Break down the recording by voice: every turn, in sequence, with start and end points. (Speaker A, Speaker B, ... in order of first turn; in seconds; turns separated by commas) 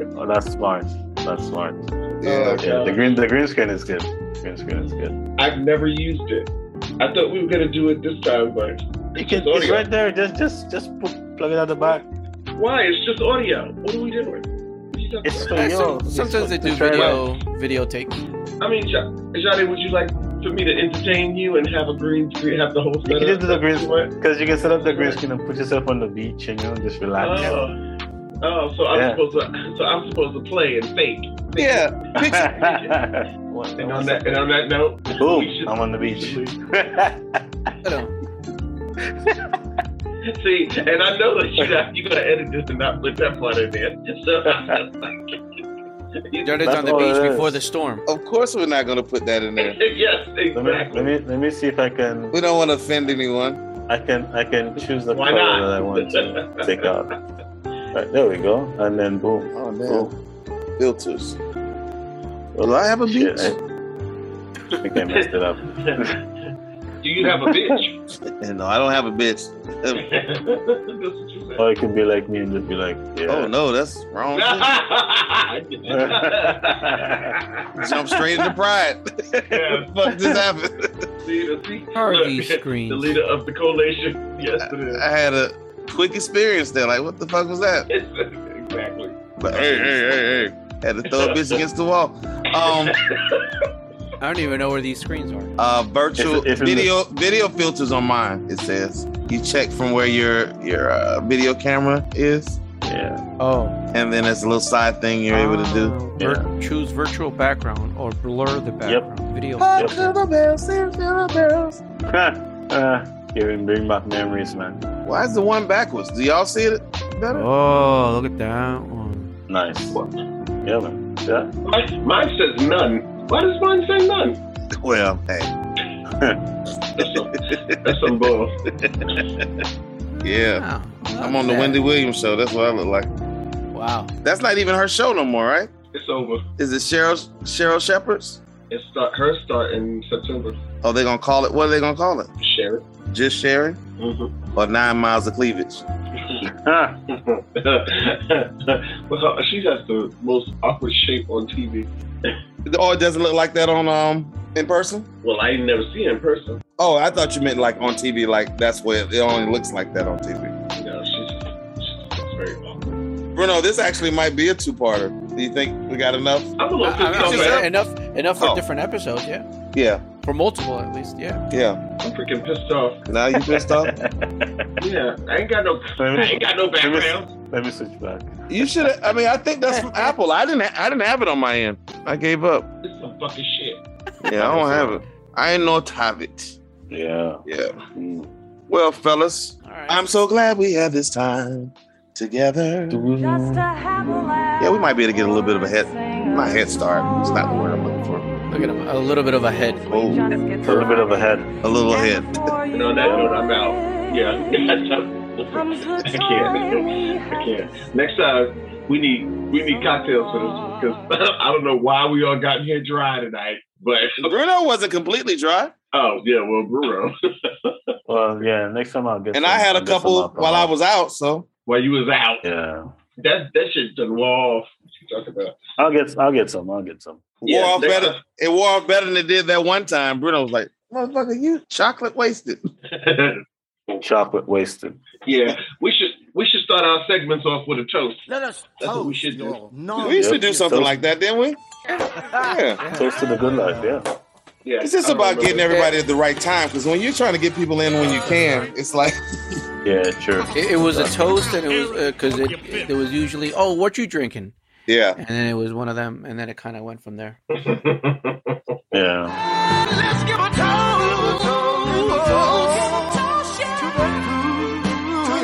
Speaker A: 0.1-5.2, Speaker B: 2.2-2.6, Speaker C: 2.5-3.0, Speaker C: 5.4-9.8, Speaker A: 9.2-12.1, Speaker C: 12.5-15.5, Speaker A: 15.2-17.2, Speaker D: 15.5-18.2, Speaker C: 18.6-24.1, Speaker A: 23.1-27.7, Speaker C: 24.8-25.2, Speaker C: 27.2-27.8, Speaker C: 28.4-31.9, Speaker A: 28.9-29.2, Speaker B: 31.6-32.5, Speaker A: 32.1-34.5, Speaker C: 32.5-32.9, Speaker C: 33.8-36.5, Speaker A: 35.2-37.4, Speaker D: 37.8-38.1, Speaker A: 39.1-39.5, Speaker C: 40.3-45.3, Speaker C: 46.3-46.5, Speaker D: 46.4-48.0, Speaker A: 46.6-47.6, Speaker B: 48.1-49.8, Speaker C: 49.5-51.1, Speaker A: 50.5-52.4, Speaker B: 52.3-53.6, Speaker A: 53.9-57.1, Speaker C: 55.1-56.7, Speaker A: 57.9-60.1, Speaker B: 59.5-60.1, Speaker B: 60.8-61.4, Speaker A: 62.5-63.6, Speaker B: 62.6-63.6, Speaker A: 64.8-66.1, Speaker C: 67.0-68.0, Speaker A: 67.2-67.8, Speaker B: 68.4-70.2, Speaker C: 69.9-71.6, Speaker A: 71.6-73.5, Speaker B: 73.3-74.8, Speaker C: 74.3-77.6, Speaker A: 75.9-77.3, Speaker B: 77.8-80.8, Speaker C: 79.5-79.9, Speaker A: 80.1-80.4, Speaker C: 81.2-85.0, Speaker D: 81.9-83.1, Speaker B: 84.7-87.9, Speaker C: 87.9-89.2, Speaker B: 89.4-93.0, Speaker A: 89.5-90.5, Speaker C: 92.6-93.4, Speaker D: 94.2-95.5, Speaker B: 95.6-102.6, Speaker A: 96.2-97.0, Speaker A: 102.8-103.2, Speaker D: 103.4-103.8, Speaker B: 103.9-105.9, Speaker D: 105.3-110.0, Speaker A: 106.2-106.5, Speaker A: 108.8-109.1, Speaker B: 109.6-111.8, Speaker A: 109.8-110.1, Speaker A: 112.1-114.8, Speaker B: 115.0-117.5, Speaker D: 117.3-119.3, Speaker A: 119.5-120.0, Speaker A: 120.6-121.5, Speaker C: 121.6-124.4, Speaker B: 124.8-125.5, Speaker A: 126.1-126.4, Speaker C: 127.0-127.3, Speaker B: 127.0-128.2, Speaker C: 127.8-128.5, Speaker B: 128.8-129.4, Speaker B: 130.2-130.6, Speaker D: 130.6-131.8, Speaker B: 131.2-133.1, Speaker D: 133.7-134.1, Speaker B: 134.2-135.7, Speaker C: 135.9-136.4, Speaker B: 136.6-138.4, Speaker C: 138.7-140.6, Speaker B: 140.8-142.3, Speaker C: 142.4-142.8, Speaker B: 143.1-143.8, Speaker C: 144.0-144.3, Speaker B: 144.5-145.8, Speaker A: 146.5-147.0, Speaker C: 147.1-152.3, Speaker B: 152.7-155.1, Speaker C: 155.2-156.6, Speaker B: 156.8-160.6, Speaker C: 160.7-162.9, Speaker B: 163.3-166.5, Speaker C: 166.6-167.6, Speaker D: 166.8-169.5, Speaker B: 167.1-167.7, Speaker B: 169.7-170.0, Speaker D: 170.2-171.4, Speaker B: 171.5-171.9, Speaker C: 172.0-173.0, Speaker B: 173.1-173.9, Speaker A: 173.3-174.8, Speaker C: 174.8-177.3, Speaker A: 176.0-178.7, Speaker B: 178.5-182.7, Speaker D: 179.7-180.1, Speaker C: 182.8-183.8, Speaker B: 184.2-186.6, Speaker A: 184.3-185.0, Speaker A: 186.9-187.4, Speaker B: 187.4-187.7, Speaker A: 187.9-188.3, Speaker B: 188.7-193.0, Speaker D: 189.6-190.1, Speaker A: 192.9-194.3, Speaker B: 194.6-198.3, Speaker D: 198.5-199.9, Speaker B: 199.9-200.9, Speaker A: 200.6-201.5, Speaker B: 201.6-202.4, Speaker C: 202.7-214.3, Speaker B: 214.2-215.7, Speaker C: 215.9-217.1, Speaker A: 218.1-220.7, Speaker B: 219.3-221.5, Speaker C: 221.7-222.4, Speaker A: 222.4-222.9, Speaker C: 223.2-225.5, Speaker A: 225.8-227.3, Speaker C: 227.4-228.2, Speaker B: 227.4-232.6, Speaker C: 232.9-233.4, Speaker A: 234.0-235.0, Speaker C: 235.2-238.2, Speaker C: 238.8-239.6, Speaker E: 238.9-240.0, Speaker B: 240.0-241.6, Speaker A: 240.0-241.0, Speaker B: 242.3-242.8, Speaker A: 242.8-244.1, Speaker C: 244.6-245.9, Speaker B: 244.8-249.2, Speaker A: 249.8-251.2, Speaker D: 250.5-254.5, Speaker B: 254.9-255.2, Speaker D: 255.1-257.4, Speaker C: 257.6-258.6, Speaker A: 258.9-259.4, Speaker E: 260.7-262.8